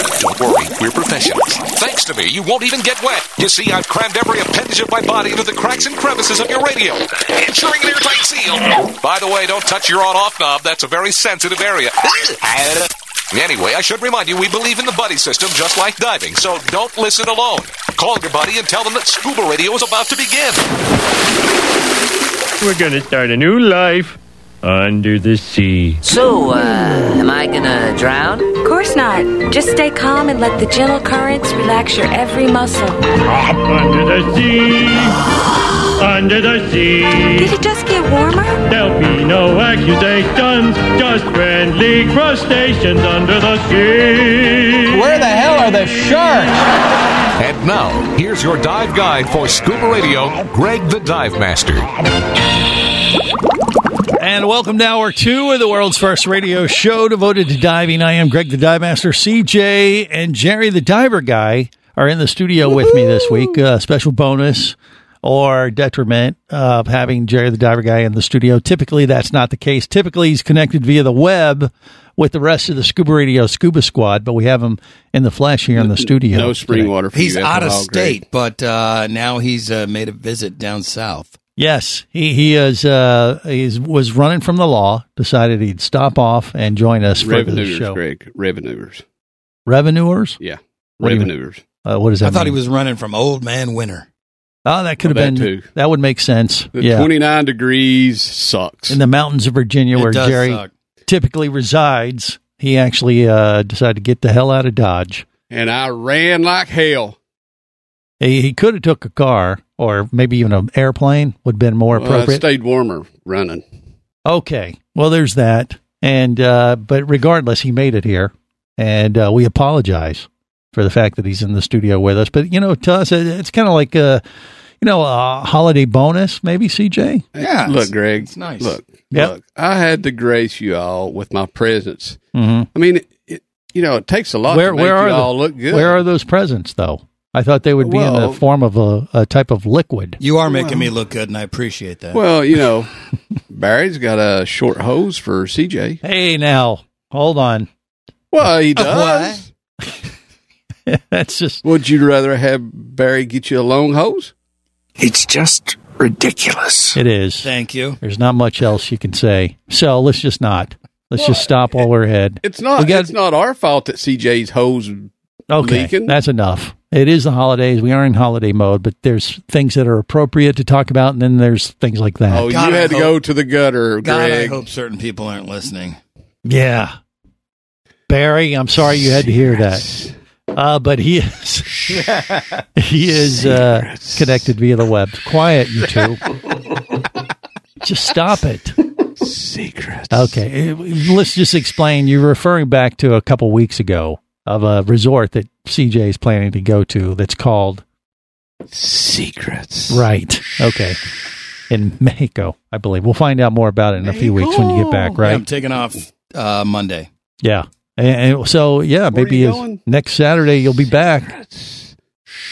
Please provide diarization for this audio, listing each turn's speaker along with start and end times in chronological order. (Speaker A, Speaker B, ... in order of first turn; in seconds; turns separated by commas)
Speaker A: 0.2-20.6, Speaker B: 22.6-26.0, Speaker C: 26.0-28.5, Speaker D: 28.6-33.0, Speaker B: 33.6-35.2, Speaker B: 36.0-37.5, Speaker D: 37.4-38.6, Speaker B: 38.7-45.0, Speaker E: 44.9-46.5, Speaker A: 47.4-51.9, Speaker E: 54.2-76.9, Speaker F: 75.8-78.2, Speaker G: 77.1-81.4, Speaker E: 81.6-88.0, Speaker F: 87.2-89.0, Speaker E: 89.7-90.4, Speaker F: 90.4-91.6, Speaker E: 91.0-91.3, Speaker E: 91.8-92.6, Speaker G: 92.2-94.1, Speaker E: 94.7-97.1, Speaker F: 95.0-95.7, Speaker F: 96.8-99.0, Speaker E: 98.9-105.3, Speaker G: 99.9-100.7, Speaker F: 105.5-107.2, Speaker E: 108.2-112.4, Speaker F: 111.9-113.7, Speaker E: 114.3-124.2, Speaker E: 124.8-127.2, Speaker F: 127.3-132.2, Speaker G: 127.4-128.8, Speaker E: 132.3-132.7, Speaker F: 132.8-136.0, Speaker E: 134.5-140.2, Speaker F: 137.8-138.4, Speaker G: 140.2-142.3, Speaker F: 140.5-140.9, Speaker F: 142.1-142.9, Speaker F: 143.5-146.0, Speaker E: 146.0-147.7, Speaker F: 148.3-149.4, Speaker G: 148.7-149.4, Speaker E: 150.9-151.6, Speaker F: 151.6-154.3, Speaker H: 155.0-157.0, Speaker E: 156.9-157.5, Speaker G: 157.4-158.0, Speaker E: 158.0-163.1, Speaker F: 161.2-161.5, Speaker F: 162.4-166.1, Speaker E: 165.5-172.6, Speaker F: 172.3-174.7, Speaker G: 172.5-173.2, Speaker G: 174.0-176.0, Speaker E: 176.4-176.9, Speaker E: 178.1-179.9, Speaker F: 179.2-180.1, Speaker E: 180.5-181.7, Speaker E: 182.8-186.2, Speaker F: 183.1-184.4, Speaker E: 187.8-188.8, Speaker F: 189.2-190.3, Speaker E: 190.1-197.8, Speaker F: 198.7-200.0, Speaker E: 199.9-201.0, Speaker E: 201.7-205.4, Speaker F: 204.1-205.2, Speaker G: 204.9-207.1, Speaker E: 207.4-211.3, Speaker F: 209.1-209.8, Speaker F: 211.0-211.9